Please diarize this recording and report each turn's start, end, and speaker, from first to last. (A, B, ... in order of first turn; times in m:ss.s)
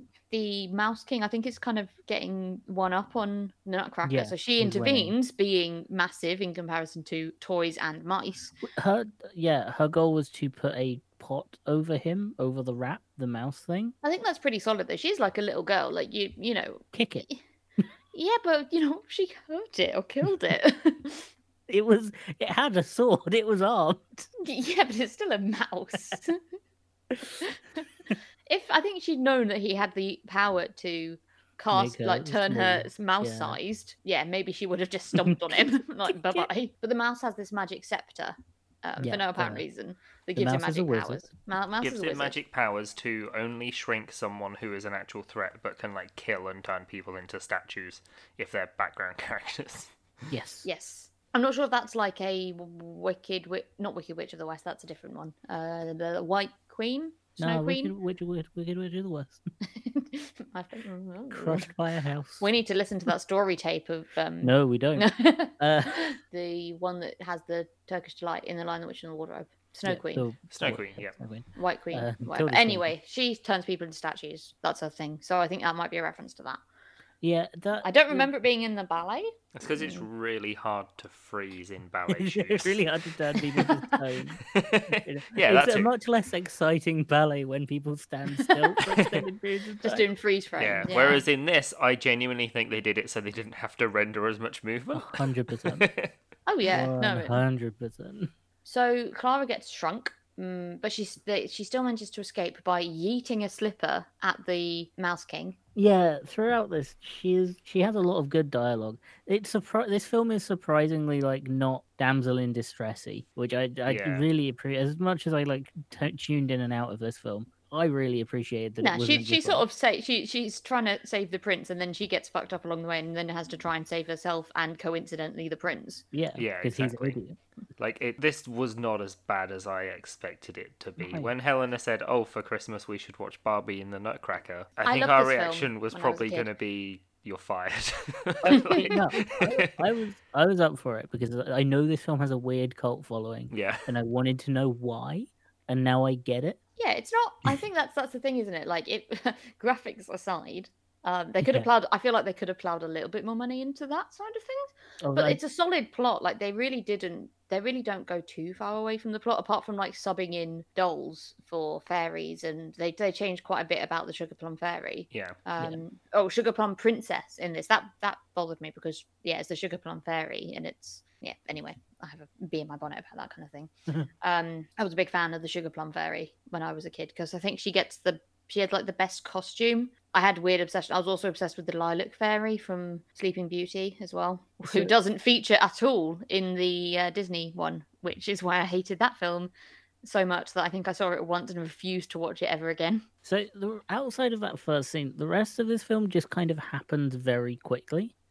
0:00.3-0:08.5 A
0:04.0-0:05.1 B
0:08.6-0:13.9 B
0:14.0-0:17.4 A
0:16.9-0:17.2 B
0:18.1-0:21.3 A
0:21.7-0:24.3 B
0:24.4-0:26.4 A
0:27.1-0:27.4 B
0:27.4-0:27.8 A
0:28.5-0:42.4 A
0:31.7-0:33.6 B
0:35.1-0:36.5 B
0:39.0-0:39.6 B
0:40.4-0:41.2 B
0:41.8-0:49.9 C
0:50.3-0:50.7 B
0:50.6-0:57.9 A
0:57.4-0:59.4 B
0:59.8-1:01.7 A
1:01.3-1:02.4 B
1:02.4-1:10.3 A
1:04.4-1:06.0 B
1:09.8-1:12.9 B
1:10.5-1:11.2 C
1:11.5-1:16.6 A
1:17.2-1:18.3 B
1:17.8-1:20.0 A
1:19.5-1:22.8 C
1:22.1-1:30.0 B
1:23.4-1:24.0 A
1:24.5-1:25.9 C
1:28.4-1:28.7 A
1:29.8-1:31.2 A
1:30.6-1:36.1 C
1:34.9-1:35.9 B
1:36.5-1:37.4 A
1:36.6-1:38.3 B
1:38.6-1:45.6 A
1:45.7-1:59.6 B
1:53.9-1:54.2 C
1:58.8-2:06.0 A
2:06.1-2:07.4 B
2:06.4-2:07.2 C
2:07.8-2:19.7 C
2:11.0-2:11.3 B
2:14.8-2:16.5 A
2:18.4-2:26.6 B
2:18.6-2:19.0 A
2:23.5-2:23.9 C
2:26.8-2:53.7 A
2:31.4-2:31.7 B
2:35.0-2:35.4 B
2:45.1-2:45.4 C
2:54.2-3:09.5 A
3:04.6-3:04.9 B
3:10.0-3:13.0 A
3:13.2-3:18.1 B